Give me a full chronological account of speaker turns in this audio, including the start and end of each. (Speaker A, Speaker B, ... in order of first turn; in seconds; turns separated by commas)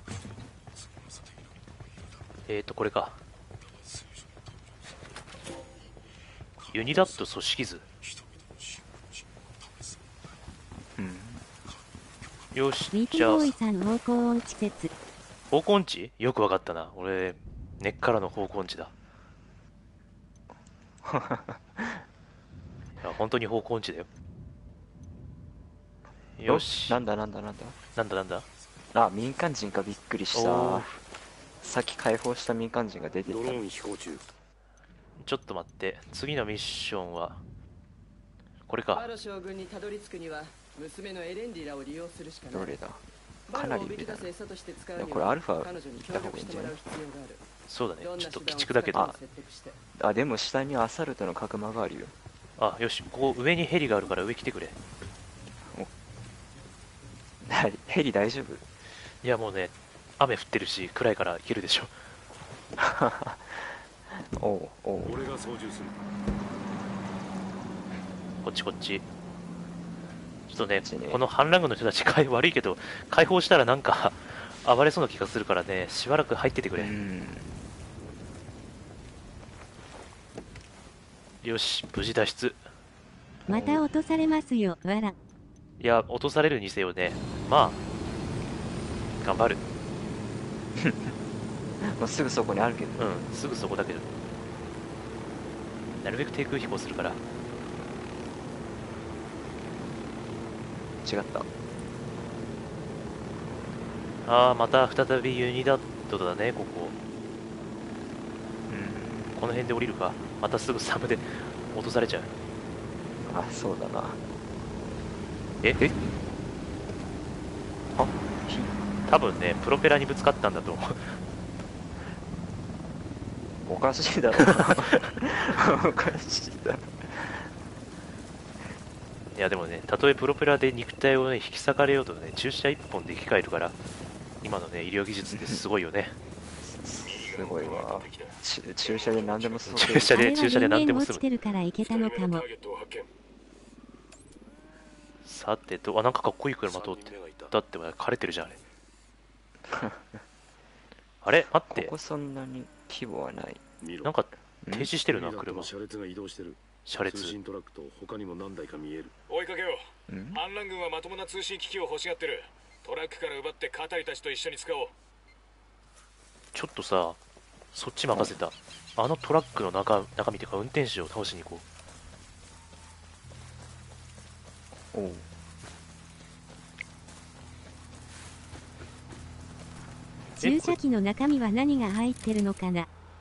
Speaker A: 2.5-3.2, Speaker A: 6.7-7.8, Speaker B: 10.9-11.4, Speaker A: 12.5-13.5, Speaker C: 12.9-14.9, Speaker A: 15.5-18.9, Speaker B: 21.0-22.0, Speaker A: 23.0-24.1, Speaker A: 26.4-27.0, Speaker B: 26.4-27.8, Speaker A: 27.9-28.4, Speaker B: 28.9-30.9, Speaker A: 30.3-31.0, Speaker B: 31.6-33.6, Speaker D: 33.2-34.2, Speaker A: 35.2-37.4, Speaker A: 38.7-39.1, Speaker E: 38.9-42.7, Speaker B: 42.5-44.3, Speaker E: 43.5-47.4, Speaker B: 45.0-46.8, Speaker A: 47.7-49.1, Speaker E: 48.0-49.8, Speaker B: 50.0-52.1, Speaker A: 52.6-54.8, Speaker B: 57.4-58.6, Speaker A: 59.2-61.9, Speaker B: 62.8-65.2, Speaker D: 65.0-66.0, Speaker A: 68.4-69.0, Speaker A: 70.5-76.9, Speaker B: 70.8-71.2, Speaker B: 76.8-77.5, Speaker A: 81.4-82.6, Speaker C: 83.5-85.1, Speaker B: 83.5-83.8, Speaker A: 85.8-87.8, Speaker A: 89.2-89.6, Speaker B: 90.8-91.2, Speaker B: 91.8-93.1, Speaker A: 93.0-94.1, Speaker A: 96.0-97.2, Speaker B: 101.0-101.5, Speaker A: 104.2-106.9, Speaker B: 108.7-109.4, Speaker A: 109.3-112.3, Speaker B: 113.3-114.2, Speaker A: 115.6-115.9, Speaker B: 117.9-118.7, Speaker A: 119.0-121.2, Speaker B: 123.6-127.5, Speaker A: 129.3-133.8, Speaker A: 134.4-136.2, Speaker B: 135.3-135.6, Speaker B: 136.6-140.2, Speaker F: 137.0-139.9, Speaker A: 139.7-141.2, Speaker C: 140.1-142.4, Speaker F: 141.8-143.1, Speaker A: 145.2-148.6, Speaker D: 146.6-147.5, Speaker B: 149.7-150.0, Speaker A: 151.2-151.9, Speaker B: 151.7-153.6, Speaker D: 153.8-154.1, Speaker A: 154.0-155.7, Speaker B: 154.6-155.0, Speaker D: 155.0-159.1, Speaker A: 156.8-157.3, Speaker F: 159.3-164.9, Speaker B: 160.1-160.4, Speaker A: 166.5-167.2, Speaker A: 167.7-171.6, Speaker B: 168.1-168.4, Speaker B: 174.9-175.2, Speaker C: 180.4-182.9, Speaker A: 180.4-180.8